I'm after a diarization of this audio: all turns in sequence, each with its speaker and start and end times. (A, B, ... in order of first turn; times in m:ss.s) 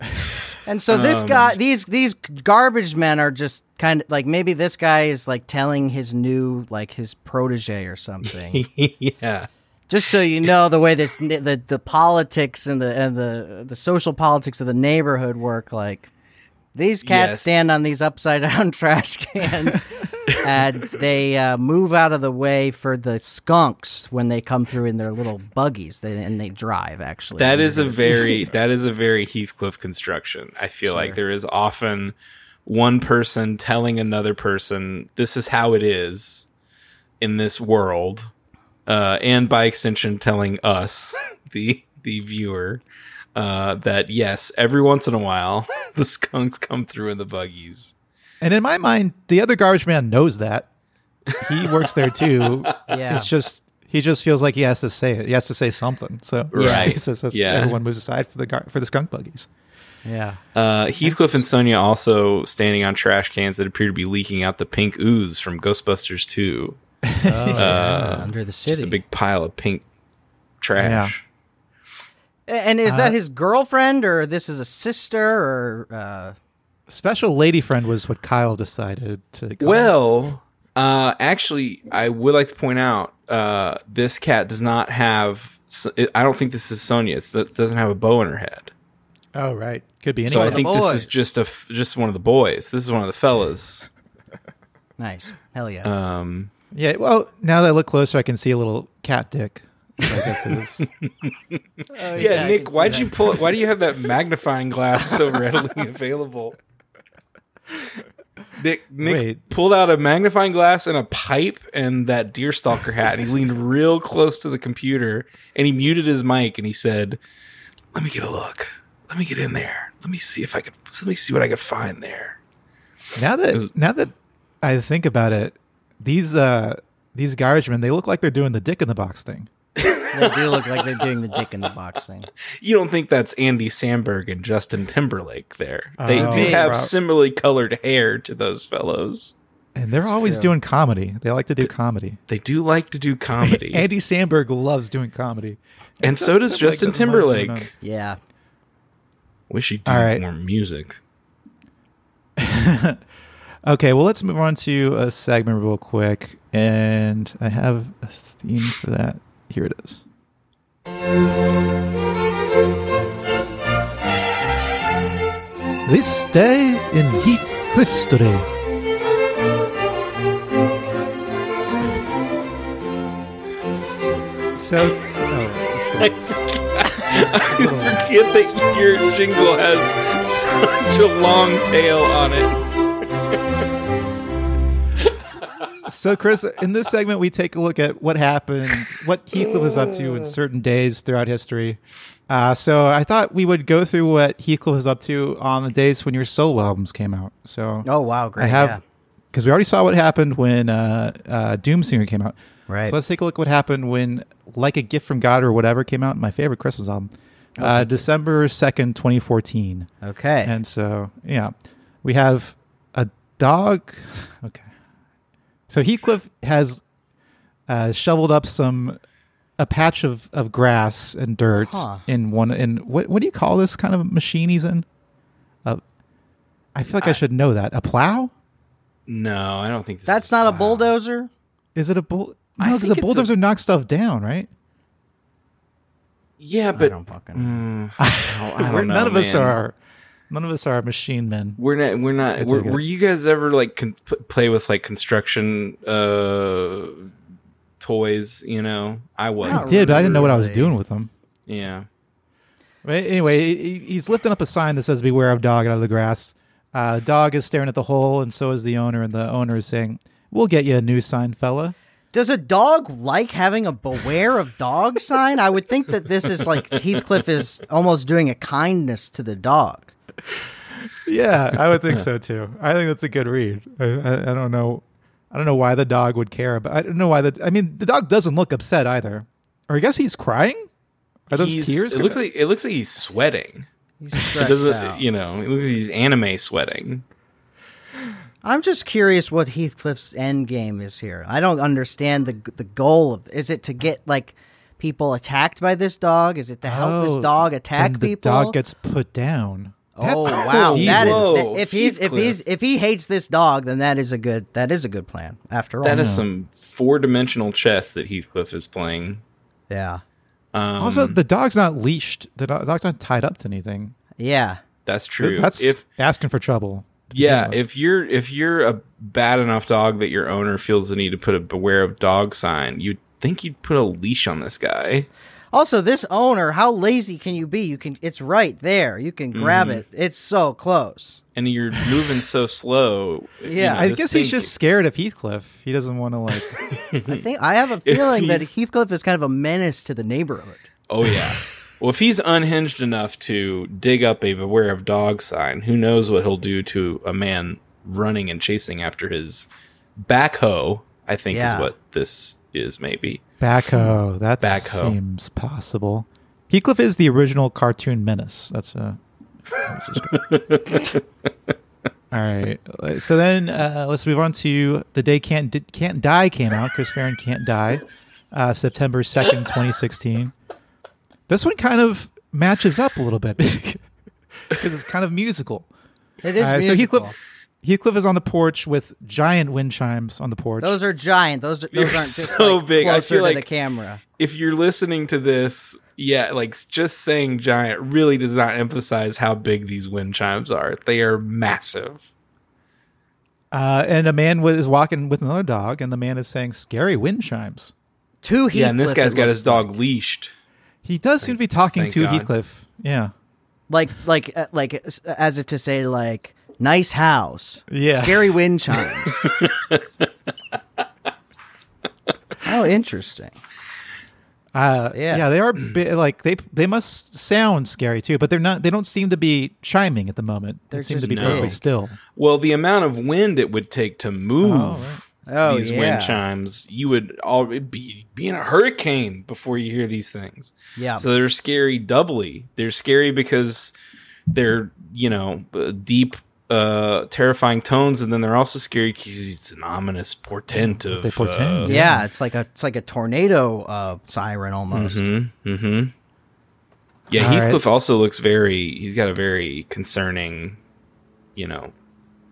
0:00.6-0:08.6 A
0:00.9-0:01.6 B
0:08.5-0:09.5 B
0:09.9-0:16.1 A
0:16.7-0:28.4 A
0:17.0-0:17.7 B
0:27.4-0:32.1 B
0:30.8-0:31.2 A
0:32.6-0:36.4 B
0:37.2-0:38.3 B
0:38.8-0:42.8 B
0:43.3-0:47.9 B
0:48.4-0:50.7 C
0:51.3-0:51.8 B
0:51.4-0:59.5 C
0:52.4-0:52.8 B
0:52.9-0:53.3 A
0:56.5-0:57.8 B
0:56.5-0:56.9 A
1:00.0-1:00.4 A
1:00.5-1:06.8 B
1:07.0-1:08.0 C
1:07.2-1:09.0 A
1:07.6-1:09.8 B
1:10.6-1:11.2 B
1:10.8-1:11.1 C
1:12.5-1:16.4 A
1:12.8-1:13.2 C
1:16.9-1:19.9 C
1:19.6-1:28.7 B
1:29.3-1:31.1 C
1:30.2-1:33.9 B
1:30.3-1:31.1 A
1:35.0-1:35.9 A
1:35.8-1:36.5 B
1:36.7-1:40.8 C
1:40.0-1:41.6 B
1:41.9-1:43.4 A
1:42.1-1:46.6 B
1:42.2-1:42.4 C
1:48.6-1:57.2 B
1:49.0-1:49.4 C
1:57.9-2:02.4 B
2:03.2-2:09.5 C
2:09.8-2:11.0 B
2:10.1-2:12.3 A
2:12.6-2:19.3 B
2:16.0-2:16.9 C
2:16.1-2:16.7 A
2:19.7-2:22.2 C
2:20.2-2:20.5 A
2:22.3-2:23.8 B
2:23.4-2:27.7 C
2:26.0-2:27.7 B
2:27.8-2:28.2 A
2:29.5-2:31.0 B
2:29.8-2:30.2 C
2:32.4-2:33.0 C
2:33.6-2:40.0 C
2:45.8-2:48.5 C
2:53.8-2:56.1 C
2:55.9-3:02.6 B
2:57.4-2:58.1 C
3:05.8-3:17.8 C
3:17.8-3:18.8 A
3:18.4-3:18.8 C
3:19.3-3:29.9 C
3:22.7-3:23.0 A
3:27.6-3:28.0 A
3:30.0-3:30.5 A
3:30.4-3:31.5 C
3:32.0-3:34.6 C
3:35.7-3:36.8 C
3:37.7-3:39.0 C
3:39.6-3:44.8 C
3:41.5-3:42.0 A
3:46.7-3:48.3 C
3:49.1-3:50.9 B
3:50.0-3:51.3 A
3:51.7-3:54.5 C
3:52.6-3:53.3 B
3:56.4-3:59.6 B
3:56.7-3:57.6 A
3:58.0-3:59.7 C
4:00.3-4:01.6 C
4:01.6-4:07.1 B
4:02.3-4:02.8 C
4:07.8-4:10.3 B
4:09.4-4:11.1 C
4:09.4-4:10.7 A
4:11.5-4:11.9 B
4:12.8-4:21.8 C
4:22.1-4:29.9 A
4:31.0-4:40.7 C
4:41.3-4:42.2 C
4:41.3-4:43.7 B
4:44.0-4:45.0 A
4:44.3-4:47.0 B
4:48.4-4:58.6 A
4:56.6-5:01.5 C
4:59.9-5:06.2 A
5:00.2-5:02.4 B
5:05.8-5:09.2 B
5:05.9-5:06.2 C
5:09.7-5:10.0 A
5:10.5-5:11.2 B
5:10.8-5:13.9 C
5:14.2-5:14.6 A
5:14.8-5:15.8 B
5:15.2-5:17.6 C
5:17.1-5:25.1 B
5:25.5-5:31.2 A
5:29.3-5:29.8 B
5:31.4-5:34.5 B
5:33.4-5:33.9 A
5:33.6-5:36.6 C
5:36.5-5:37.2 B
5:37.0-5:40.6 A
5:37.8-5:38.5 B
5:40.9-5:53.2 B
5:51.3-5:51.7 A
5:53.4-5:59.0 C
5:54.4-5:55.0 B
5:59.6-6:00.2 C
6:00.1-6:01.0 B
6:02.1-6:10.3 C
6:11.3-6:13.8 C
6:14.5-6:15.7 C
6:16.2-6:17.1 A
6:16.4-6:20.8 C
6:20.6-6:24.0 A
6:21.7-6:23.5 B
6:24.2-6:32.1 B
6:33.5-6:37.7 C
6:38.2-6:39.7 A
6:38.5-6:40.3 B
6:40.8-6:43.1 C
6:41.2-6:42.3 B
6:43.7-6:49.2 A
6:47.7-6:48.4 C
6:49.1-6:49.8 B
6:52.4-6:53.4 A
6:54.5-7:02.0 C
6:54.9-6:55.2 A
7:00.7-7:01.6 A
7:01.1-7:01.6 B
7:02.2-7:13.7 B
7:04.4-7:05.0 C
7:05.3-7:06.2 A
7:10.8-7:11.0 A
7:14.3-7:21.8 B
7:20.7-7:22.1 C
7:21.7-7:25.0 A
7:24.7-7:25.9 B
7:27.1-7:30.6 B
7:27.1-7:27.6 C
7:31.4-7:31.7 B